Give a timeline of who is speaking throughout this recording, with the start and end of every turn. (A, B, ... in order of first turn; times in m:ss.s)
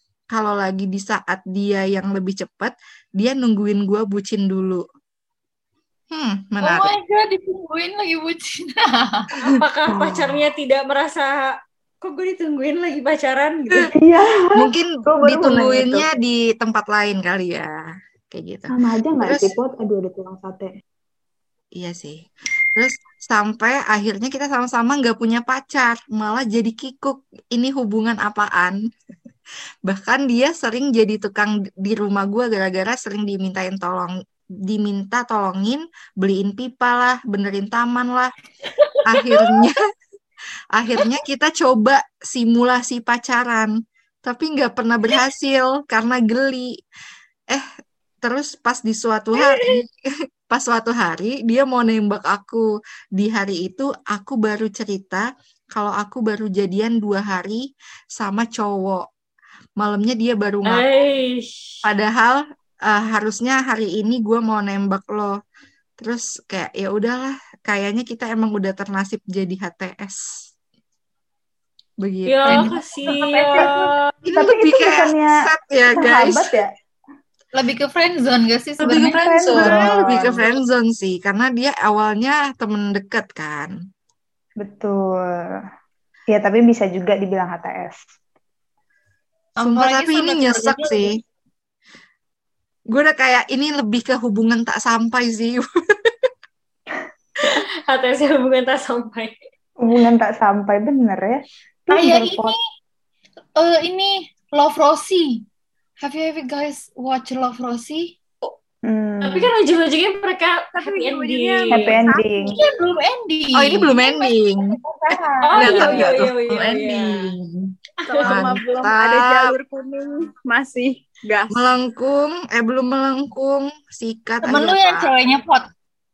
0:00.3-0:04.8 A
0:06.1-0:06.9 A
0:06.6-0:09.3 B
0:09.4-0:13.9 C
0:09.9-0:10.4 D
0:13.9-0:16.1 D
0:14.5-0:17.7 A
0:18.3-0:19.5 A
0:18.7-0:20.7 D
0:21.8-0:22.2 A
0:22.8-0:28.8 A
0:29.9-0:34.1 A
0:34.7-0:38.3 A
0:38.8-0:39.6 C
0:39.0-0:39.8 A
0:40.7-0:43.7 A
0:44.2-0:46.7 A
0:48.2-0:49.9 A
0:49.4-0:49.7 C
0:50.5-0:57.6 A
0:58.2-0:59.0 A
0:59.8-1:00.8 A
1:00.6-1:01.4 C
1:01.8-1:05.3 A
1:06.0-1:10.2 A
1:12.0-1:12.7 A
1:12.2-1:14.0 C
1:12.5-1:12.7 B
1:13.0-1:16.7 D
1:14.2-1:16.5 A
1:17.5-1:20.4 B
1:18.8-1:23.7 A
1:18.9-1:20.0 D
1:24.6-1:25.5 D
1:26.3-1:28.0 D
1:29.6-1:31.1 B
1:29.6-1:31.1 A
1:32.9-1:36.3 A
1:37.4-1:39.4 C
1:39.8-1:42.6 D
1:41.9-1:42.6 B
1:43.6-1:45.4 B
1:46.0-1:48.1 B
1:48.8-1:49.5 D
1:49.2-1:52.0 C
1:50.7-1:52.6 E
1:51.7-1:52.6 D
1:52.6-1:54.0 B
1:53.6-1:54.8 A
1:54.8-1:56.2 D
1:55.4-1:57.3 C
1:55.5-1:57.5 A
1:58.0-2:01.6 E
1:58.1-1:58.5 C
1:58.2-1:59.4 A
2:01.5-2:05.1 A
2:04.4-2:05.7 B